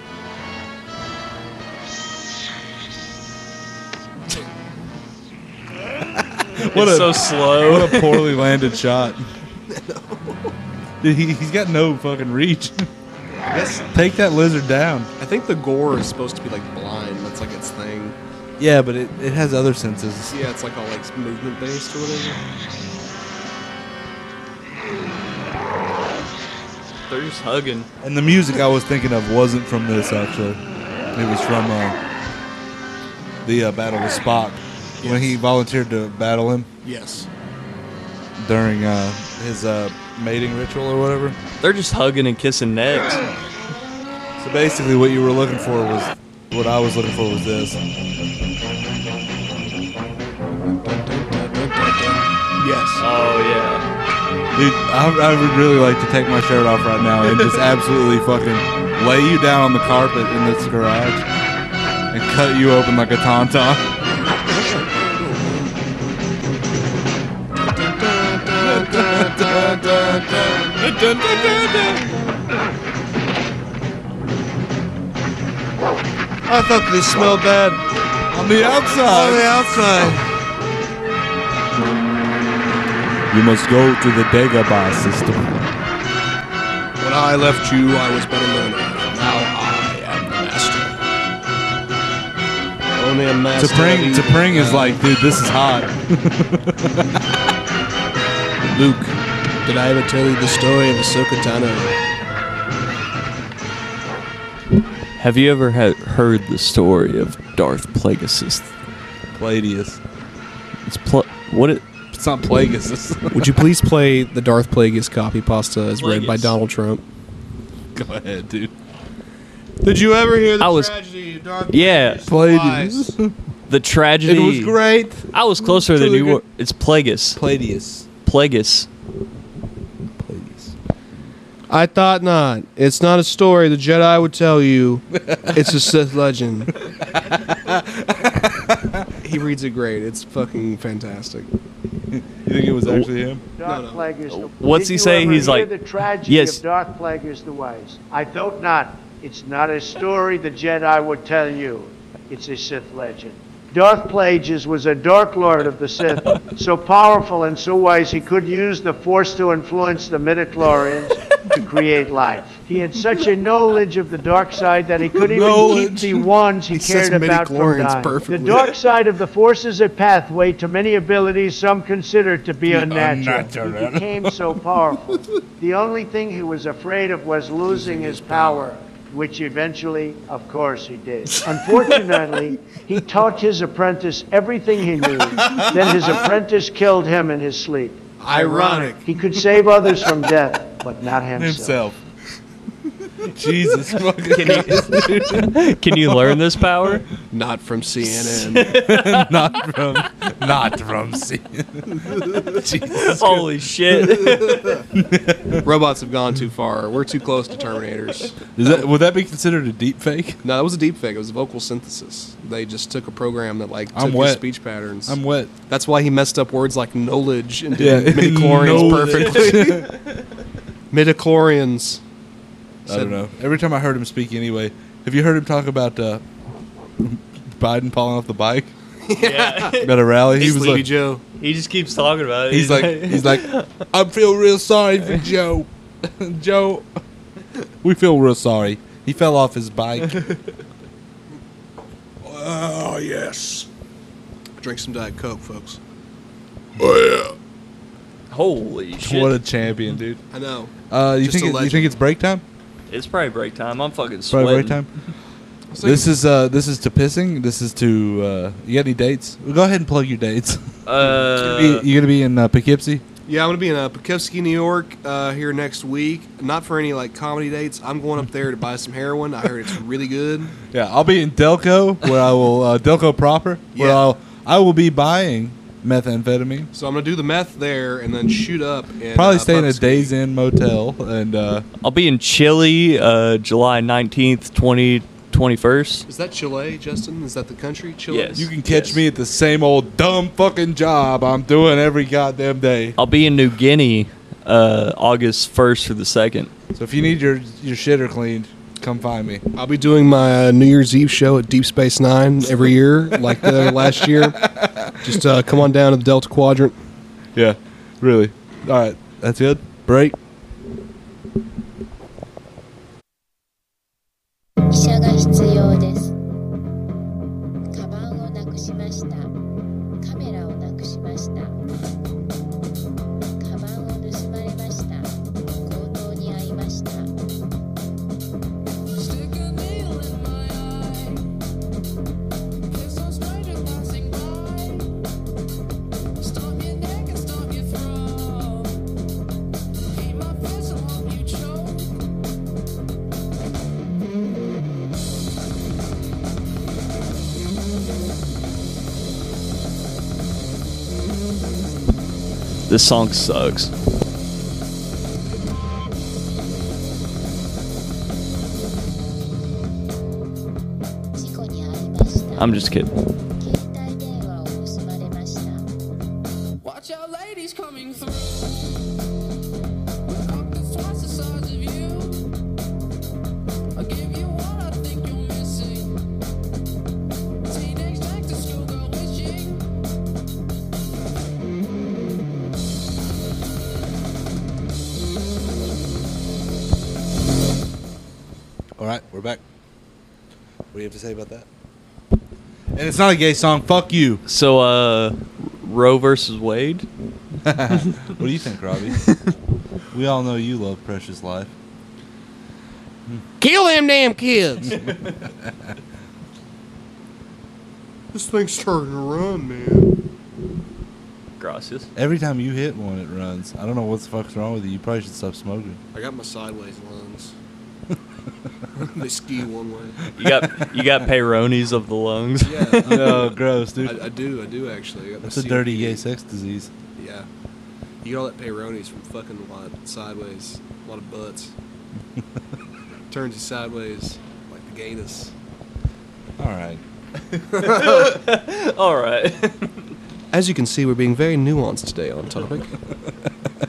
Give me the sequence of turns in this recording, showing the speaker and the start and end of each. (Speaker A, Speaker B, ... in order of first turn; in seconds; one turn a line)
Speaker A: 6.2-9.3
Speaker B: 6.7-8.4
Speaker C: 9.7-10.5
Speaker A: 11.0-12.9
Speaker C: 13.5-13.9
Speaker A: 13.9-15.1
Speaker C: 15.2-18.2
Speaker A: 18.6-20.4
Speaker C: 20.3-22.4
Speaker B: 27.1-27.9
Speaker A: 28.0-30.6
Speaker A: 31.1-32.0
Speaker A: 33.4-36.7
Speaker C: 35.0-35.4
Speaker C: 36.8-37.3
Speaker A: 38.4-41.4
Speaker B: 41.6-43.3
Speaker A: 44.4-47.8
Speaker C: 50.7-53.0
Speaker B: 53.0-53.9
Speaker A: 54.5-61.2
Speaker A: 62.1-63.9
Speaker C: 67.8-70.8
Speaker A: 68.6-69.9
Speaker A: 70.7-72.1
Speaker C: 76.5-77.8
Speaker A: 78.3-79.8
Speaker C: 78.9-80.2
Speaker A: 83.3-85.7
Speaker C: 87.0-91.0
Speaker C: 93.0-95.0
Speaker A: 93.6-97.2
Speaker A: 98.7-99.1
Speaker C: 99.7-101.9
Speaker B: 105.2-108.7
Speaker A: 109.3-110.0
Speaker B: 110.9-111.8
Speaker A: 112.1-113.7
Speaker C: 113.3-117.0
Speaker B: 116.0-116.5
Speaker A: 118.0-118.7
Speaker C: 119.8-123.2
Speaker B: 120.6-120.9
Speaker B: 121.7-122.3
Speaker A: 122.3-123.3
Speaker B: 123.7-124.8
Speaker A: 124.2-126.4
Speaker B: 125.3-127.4
Speaker A: 127.3-128.1
Speaker B: 128.2-128.9
Speaker A: 130.2-130.7
Speaker C: 131.7-136.7
Speaker A: 135.2-135.9
Speaker A: 137.2-139.1
Speaker C: 139.2-141.5
Speaker A: 142.1-143.4
Speaker D: 143.6-191.8
Speaker C: 143.6-144.1
Speaker B: 144.3-146.6
Speaker A: 165.2-166.3
Speaker C: 166.7-168.7
Speaker A: 172.7-174.5
Speaker C: 177.7-178.7
Speaker A: 185.4-186.2
Speaker C: 188.2-189.1
Speaker A: 191.3-192.0
Speaker A: 193.2-196.6
Speaker B: 194.3-197.1
Speaker C: 197.3-198.8
Speaker B: 198.2-199.4
Speaker A: 198.7-204.3
Speaker B: 202.9-204.9
Speaker A: 204.9-205.6
Speaker C: 205.6-208.8
Speaker A: 208.6-210.4
Speaker C: 210.4-219.9
Speaker A: 213.9-214.4
Speaker A: 215.1-215.5
Speaker A: 217.8-219.9
Speaker B: 218.5-219.9
Speaker C: 220.9-222.0
Speaker C: 222.9-223.2
Speaker A: 222.9-226.2
Speaker A: 227.0-228.7
Speaker C: 229.1-231.2
Speaker B: 229.2-230.0
Speaker A: 229.8-230.9
Speaker B: 231.4-233.8
Speaker A: 232.5-236.9
Speaker A: 237.8-240.3
Speaker C: 242.6-243.6
Speaker C: 244.6-245.8
Speaker C: 246.8-247.3
Speaker B: 248.3-249.4
Speaker A: 249.0-250.2
Speaker C: 250.3-251.9
Speaker A: 250.9-252.4
Speaker B: 252.9-254.8
Speaker A: 254.3-254.9
Speaker C: 255.7-256.1
Speaker A: 255.8-260.7
Speaker B: 260.9-261.9
Speaker C: 261.0-261.6
Speaker A: 261.4-263.0
Speaker C: 263.3-270.6
Speaker A: 270.7-276.7
Speaker C: 273.8-274.0
Speaker C: 276.7-280.1
Speaker A: 279.1-281.7
Speaker B: 281.8-286.1
Speaker C: 286.1-288.5
Speaker B: 288.1-289.0
Speaker A: 288.4-293.0
Speaker B: 293.0-296.5
Speaker A: 296.8-299.4
Speaker C: 299.5-304.5
Speaker A: 303.4-305.2
Speaker C: 305.0-306.8
Speaker A: 307.4-310.2
Speaker E: 314.7-316.1
Speaker E: 317.7-319.4
Speaker E: 320.0-321.6
Speaker E: 323.4-327.1
Speaker F: 328.9-331.3
Speaker F: 332.7-334.9
Speaker F: 336.2-338.8
Speaker F: 339.9-341.9
Speaker B: 352.7-353.7
Speaker E: 361.1-362.6
Speaker B: 362.4-362.9
Speaker E: 363.4-365.7
Speaker F: 366.6-368.9
Speaker F: 370.1-372.3
Speaker F: 373.8-375.9
Speaker F: 377.5-379.7
Speaker A: 388.8-389.4
Speaker A: 390.7-391.5
Speaker A: 392.8-394.2
Speaker B: 394.3-396.9
Speaker A: 397.4-399.1
Speaker A: 399.9-401.5
Speaker C: 403.4-404.8
Speaker C: 408.1-409.9
Speaker B: 411.4-411.9
Speaker A: 412.0-415.8
Speaker C: 415.9-417.3
Speaker C: 418.8-420.0
Speaker B: 420.2-423.2
Speaker C: 422.4-426.0
Speaker A: 422.9-424.1
Speaker A: 425.2-426.7
Speaker C: 427.0-427.3
Speaker C: 428.0-431.5
Speaker C: 433.1-435.3
Speaker A: 436.4-436.8
Speaker B: 437.6-439.9
Speaker C: 437.6-437.9
Speaker C: 440.3-442.7